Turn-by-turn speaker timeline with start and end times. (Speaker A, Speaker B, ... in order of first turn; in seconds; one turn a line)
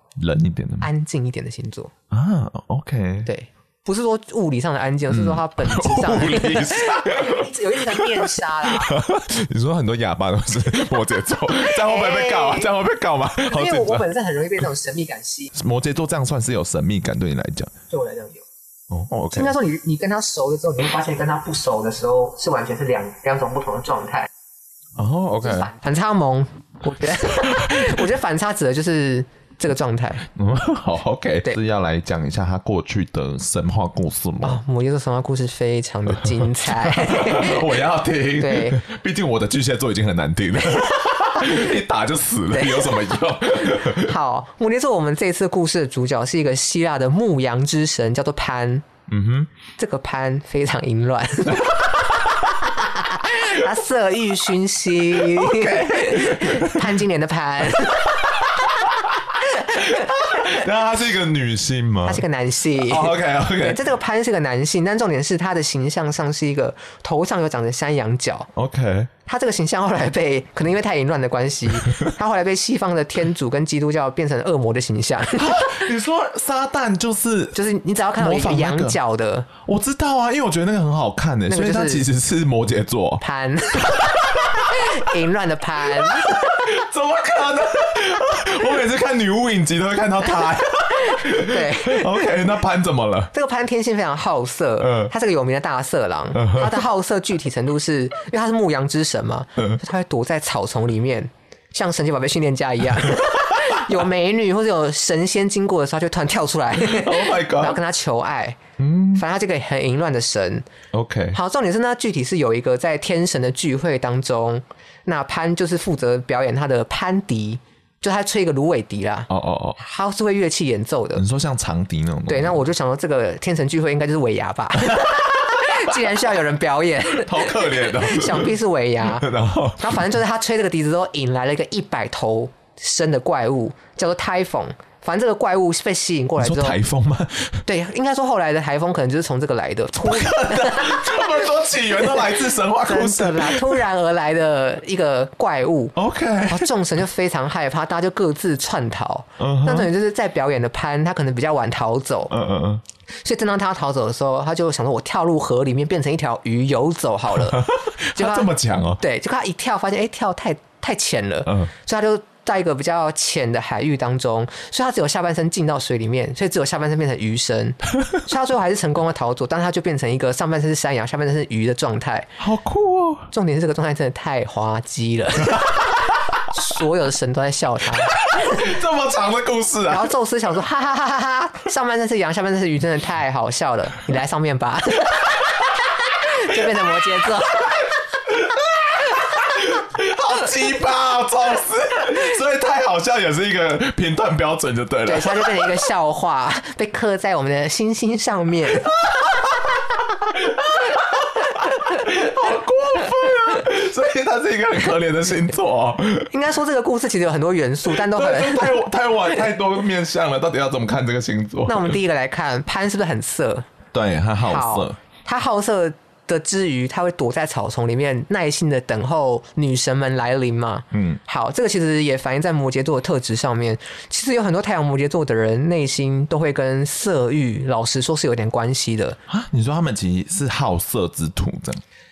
Speaker A: 0.2-0.9
Speaker B: 0.8-1.9
Speaker A: 2.1-3.3
Speaker B: 3.2-8.9
Speaker A: 5.1-14.1
Speaker B: 11.5-12.7
Speaker B: 13.4-15.5
Speaker A: 15.5-17.7
Speaker B: 17.9-18.4
Speaker A: 18.9-19.5
Speaker B: 19.3-24.3
Speaker A: 25.0-25.7
Speaker B: 25.4-30.2
Speaker A: 27.4-27.9
Speaker A: 30.3-34.6
Speaker B: 34.4-37.6
Speaker A: 36.1-44.1
Speaker B: 38.4-38.8
Speaker B: 42.5-43.1
Speaker B: 43.7-48.8
Speaker A: 49.1-49.5
Speaker B: 49.8-51.9
Speaker B: 52.6-58.4
Speaker A: 55.2-56.9
Speaker A: 60.0-62.2
Speaker B: 62.0-68.5
Speaker A: 62.8-63.8
Speaker A: 68.5-69.1
Speaker B: 69.2-75.8
Speaker A: 75.3-77.6
Speaker B: 77.5-79.5
Speaker A: 78.2-79.0
Speaker A: 79.6-83.2
Speaker B: 81.5-82.0
Speaker B: 83.2-84.1
Speaker A: 83.8-84.7
Speaker B: 84.7-86.4
Speaker A: 86.0-93.3
Speaker B: 91.1-92.1
Speaker B: 93.3-108.6
Speaker A: 94.8-95.1
Speaker A: 96.3-96.8
Speaker A: 106.8-107.8
Speaker A: 108.8-109.2
Speaker B: 109.2-110.7
Speaker A: 110.9-111.4
Speaker B: 111.3-121.2
Speaker A: 119.3-119.8
Speaker A: 121.1-122.6
Speaker B: 122.3-129.3
Speaker A: 127.2-130.1
Speaker B: 129.8-136.8
Speaker A: 136.4-137.6
Speaker B: 137.7-141.4
Speaker A: 139.9-143.8
Speaker B: 142.8-145.9
Speaker A: 145.9-146.7
Speaker B: 146.5-152.3
Speaker A: 149.4-149.9
Speaker A: 152.3-152.8
Speaker B: 153.2-172.3
Speaker A: 157.3-159.0
Speaker A: 161.4-161.7
Speaker A: 172.4-173.3
Speaker B: 173.3-178.6
Speaker A: 178.0-180.1
Speaker B: 179.9-187.8
Speaker A: 188.3-195.8
Speaker B: 195.1-198.9
Speaker A: 200.2-206.3
Speaker B: 206.3-208.8
Speaker A: 207.8-211.9
Speaker B: 211.7-213.7
Speaker A: 213.9-215.0
Speaker B: 214.4-229.2
Speaker A: 220.9-221.2
Speaker A: 229.3-231.8